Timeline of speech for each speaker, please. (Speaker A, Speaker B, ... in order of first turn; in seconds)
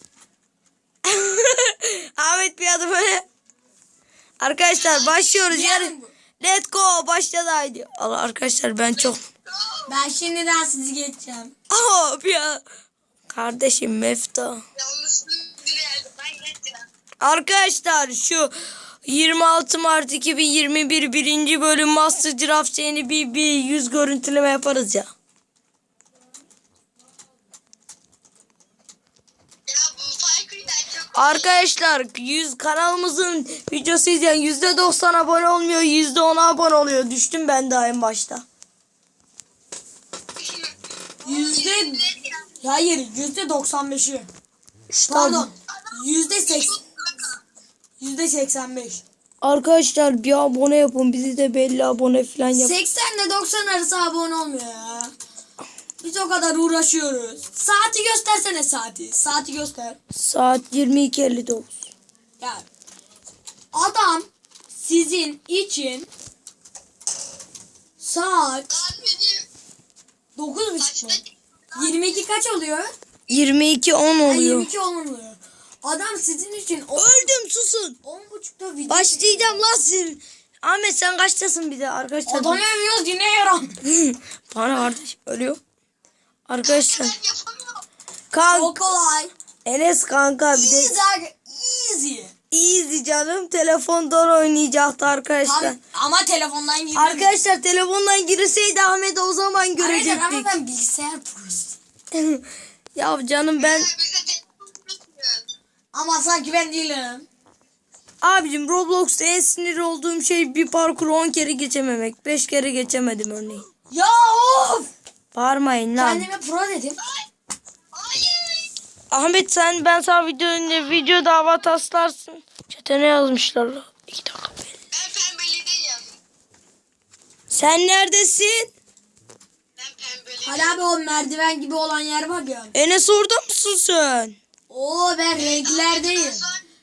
Speaker A: 1.0-3.2, 4.4-9.2, 11.7-12.6, 13.3-14.6, 17.2-18.5, 19.1-25.1, 31.1-38.5, 44.9-45.5, 49.4-52.8, 60.1-61.9, 73.3-74.7, 77.0-78.0, 78.9-82.6, 83.9-85.6, 86.5-87.2, 88.3-88.8, 89.7-90.9, 92.5-95.8, 97.0-100.5, 102.1-102.4, 103.0-103.9, 108.2-113.7, 115.3-116.3, 119.1-124.7, 127.5-128.7, 132.8-134.4
Speaker B: 4.8-5.4, 14.8-16.8, 29.7-31.6, 41.2-42.4, 68.7-69.5, 70.8-71.9, 86.6-87.8, 103.6-105.4, 117.9-118.7, 124.9-126.1, 129.8-130.8, 135.4-136.6
Speaker C: 5.5-6.1, 9.9-11.5, 41.2-42.1, 42.6-44.3, 45.1-46.8, 48.0-49.0, 52.5-55.1, 56.0-60.0, 62.4-62.6, 63.7-66.1, 68.0-68.8, 70.4-71.2, 71.7-72.9, 74.3-77.3, 78.0-79.7, 82.3-83.8, 88.5-89.3, 90.5-92.3, 95.4-97.3, 99.8-101.8, 105.9-107.3, 113.9-114.9, 116.0-117.0, 130.4-132.8, 134.7-136.4